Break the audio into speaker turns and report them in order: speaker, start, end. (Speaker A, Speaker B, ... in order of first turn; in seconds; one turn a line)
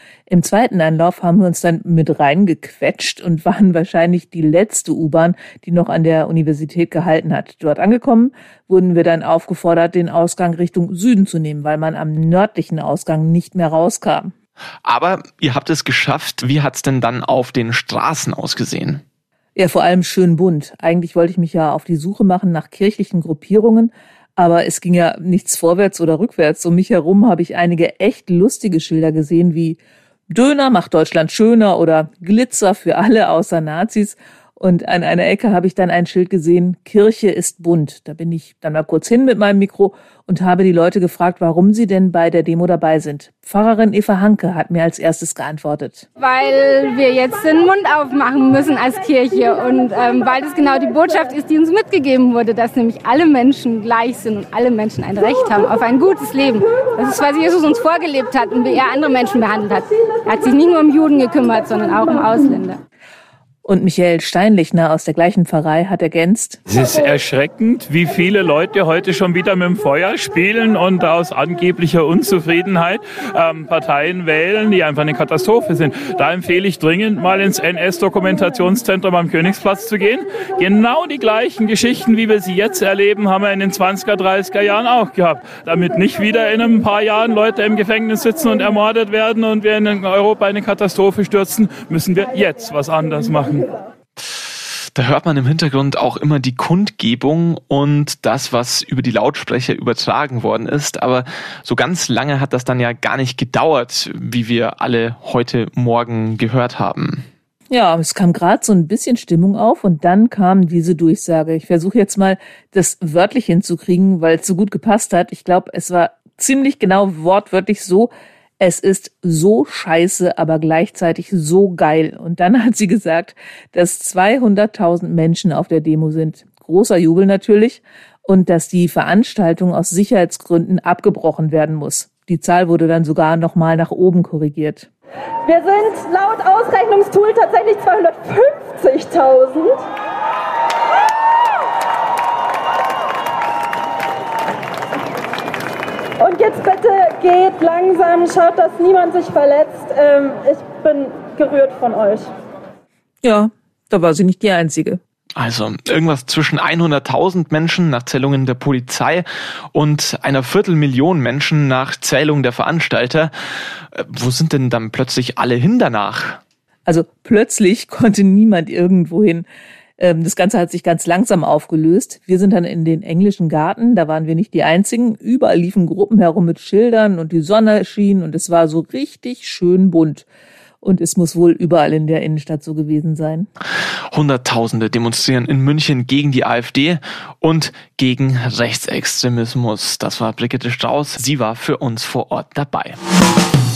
Speaker A: 0.3-14.3
Speaker B: 14.8-19.0
Speaker A: 19.6-29.8
Speaker A: 30.3-46.0
Speaker C: 46.2-62.8
Speaker A: 63.6-66.6
Speaker D: 66.7-93.7
Speaker B: 95.0-107.2
Speaker A: 107.7-134.9
Speaker E: 135.4-139.8
Speaker E: 146.2-152.3
Speaker A: 153.2-155.0
Speaker B: 155.4-163.3
Speaker B: 163.9-166.4
Speaker A: 166.8-169.5
Speaker A: 170.0-180.2
Speaker A: 180.8-183.5
Speaker B: 184.1-193.0